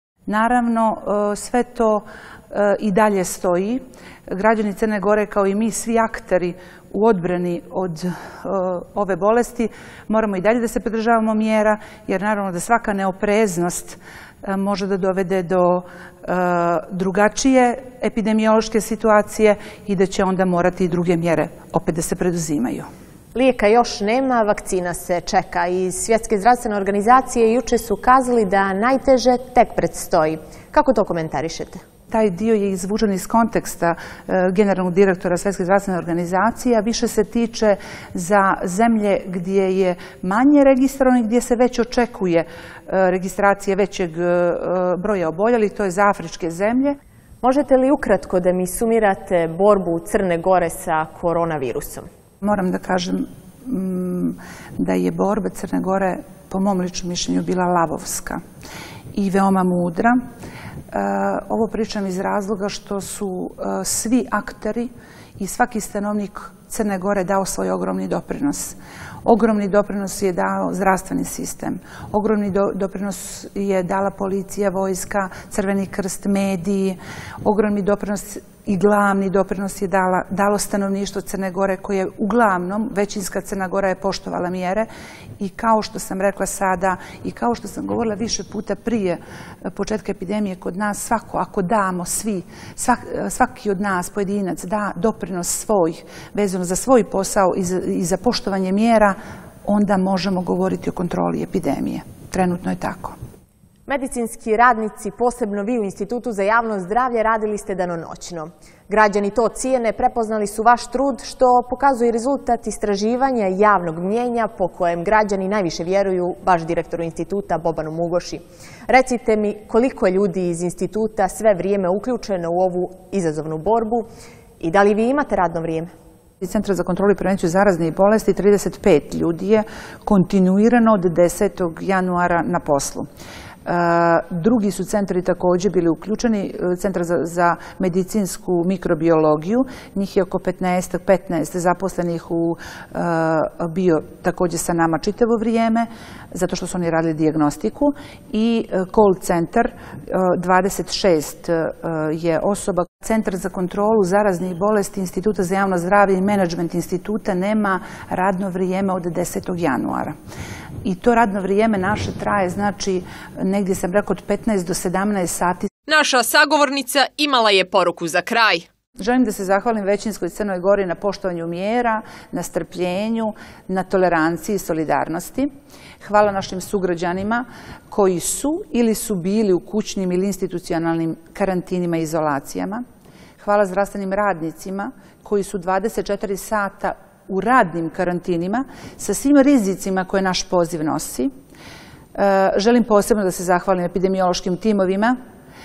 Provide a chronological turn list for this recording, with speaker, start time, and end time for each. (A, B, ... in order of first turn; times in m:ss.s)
0:00.3-0:22.8 A
0:23.3-0:31.8 B
0:32.1-0:47.0 A
0:47.4-0:52.1 B
0:52.4-0:58.4 A
0:59.1-1:00.2 A
1:00.9-1:24.9 A
1:25.4-1:43.2 A
1:43.9-2:04.0 B
2:04.6-2:05.9 B
2:06.4-2:13.1 A
2:13.6-2:40.1 A
2:40.8-2:45.7 A
2:45.9-2:48.7 C
2:49.0-3:02.8 A
3:03.4-3:11.3 A
3:12.1-3:15.2 A